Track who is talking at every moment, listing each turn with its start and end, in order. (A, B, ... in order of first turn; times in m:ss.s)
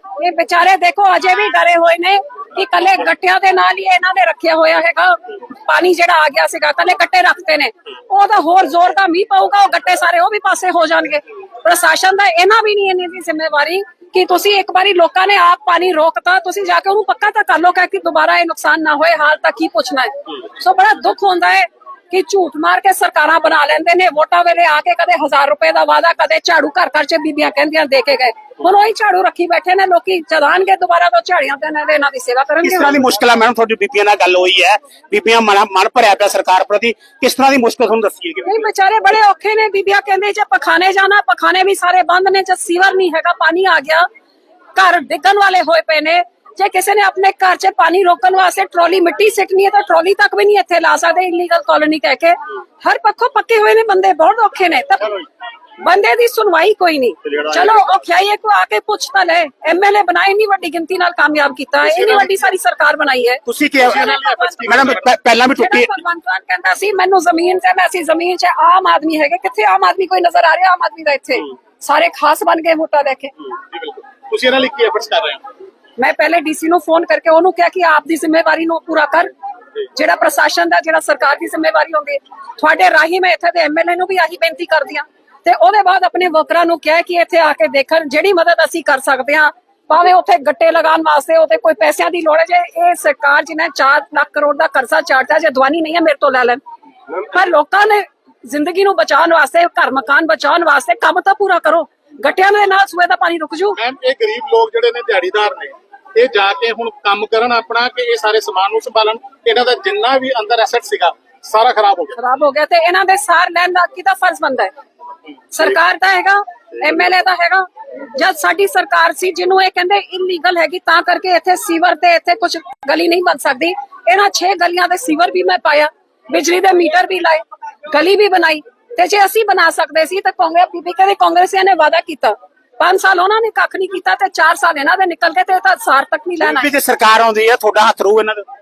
0:00.2-0:33.0 A
0:32.6-0:38.6 B
0:38.4-0:44.1 A
0:44.8-0:55.2 A
0:55.8-1:04.7 A
1:01.8-1:02.3 C
1:03.4-1:04.1 B
1:03.8-1:05.1 C
1:04.6-1:05.9 B
1:05.5-1:13.3 A
1:13.7-1:15.4 C
1:16.0-1:19.3 A
1:19.9-1:36.6 A
1:37.3-1:43.8 A
1:43.8-1:52.2 C
1:52.2-1:54.7 A
1:55.5-2:16.7 A
2:16.4-2:18.4 B